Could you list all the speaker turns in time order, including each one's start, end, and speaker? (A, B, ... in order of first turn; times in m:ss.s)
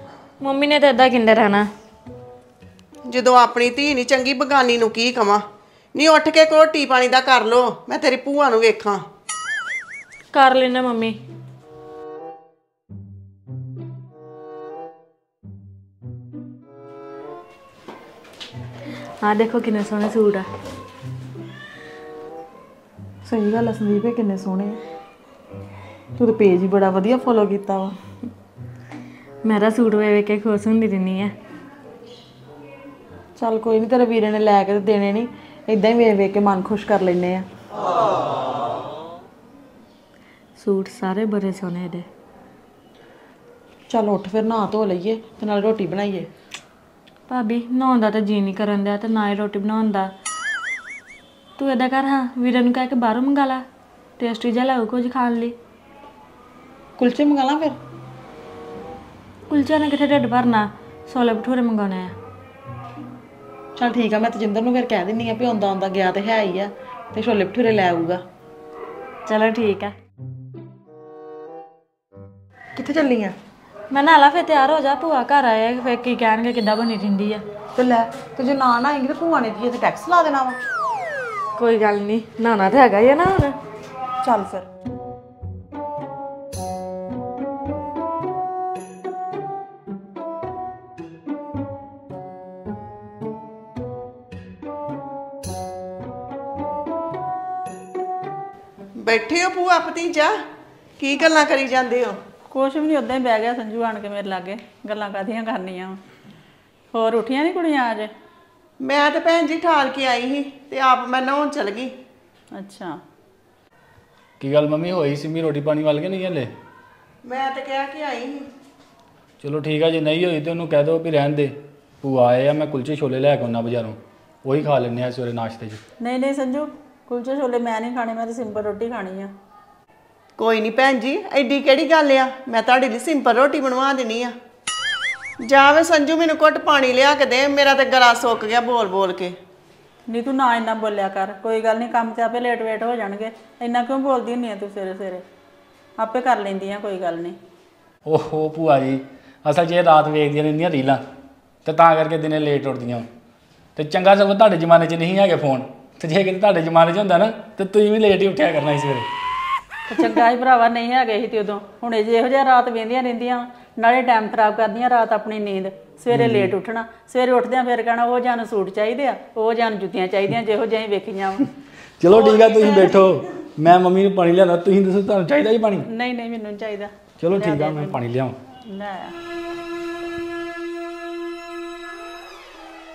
0:00.4-0:01.7 A
0:03.1-0:05.4 B
0:05.9-0:09.0 B
0:10.3-0:11.2 A
0:19.2-0:20.5 A
0:23.2-0:24.8 C
0:26.2-0:28.0 C
0:29.4-0:31.3 A
0:33.4-0:37.4 C
0:40.6-0:42.0 A
0:43.9-0:46.3 C
0:47.3-0:50.1 A
0:51.6-0:53.6 A
0:54.2-0:55.5 A
0:57.0-0:57.8 C
0:59.5-1:02.1 A
1:03.8-1:08.2 C
1:09.2-1:09.9 A
1:12.8-1:13.3 C
1:13.9-1:17.4 A
1:17.8-1:20.6 C
1:21.6-1:23.6 A
1:24.2-1:24.6 C
1:39.0-1:40.3 B
1:41.0-1:42.1 B
1:42.5-1:46.0 D
1:46.9-1:48.1 D
1:48.8-1:51.9 B
1:52.5-1:53.0 D
1:54.4-1:56.5 E
1:57.2-1:58.4 B
1:59.4-2:05.8 E
2:06.0-2:09.3 D
2:10.4-2:14.3 B
2:15.5-2:19.3 B
2:20.1-2:25.2 D
2:26.0-2:27.4 D
2:28.0-2:31.0 E
2:31.6-2:33.0 E
2:33.8-2:39.0 E
2:39.9-2:51.4 D
2:46.1-2:46.5 E
2:52.0-2:55.8 E
2:52.1-2:53.0 D
2:55.8-2:58.0 D
2:57.2-2:58.4 E
2:58.6-2:59.1 D